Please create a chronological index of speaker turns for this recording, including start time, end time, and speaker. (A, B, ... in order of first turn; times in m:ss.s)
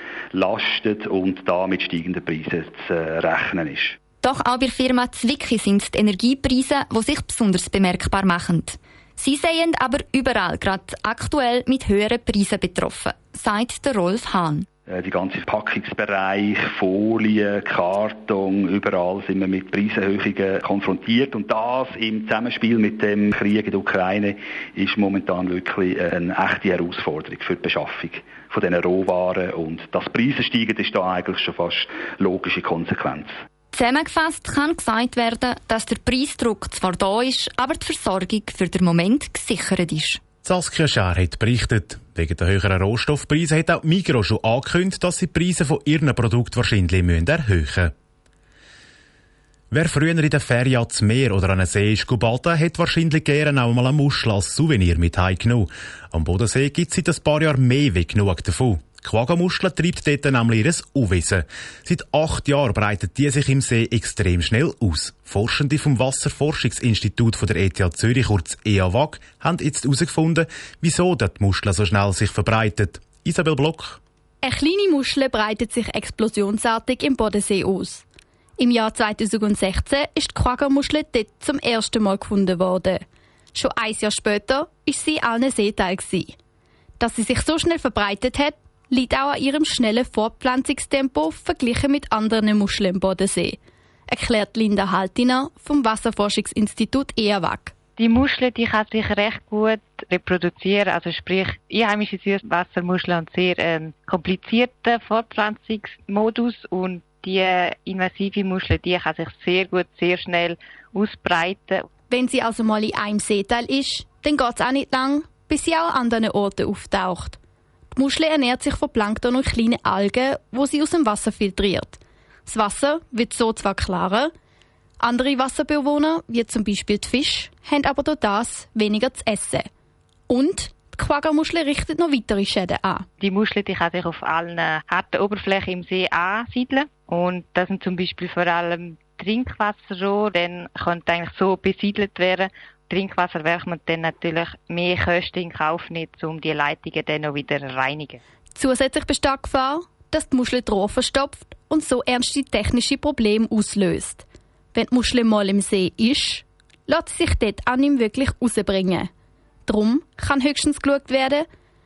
0:00.3-0:04.0 A
0:04.2-0:14.7 B
0:14.9-0:33.3 A
0:33.7-0:40.2 B
0:40.4-0:47.9 C
0:49.7-1:14.0 C
1:14.4-1:18.0 D
1:18.6-1:23.0 D
1:23.5-1:26.3 D
1:27.0-1:37.7 D
1:38.0-1:51.9 E
1:52.1-1:57.4 D
1:57.9-2:04.3 D
2:05.0-2:09.7 D
2:10.3-2:13.1 D
2:13.2-2:28.2 E
2:28.6-2:39.1 D
2:39.7-2:41.4 D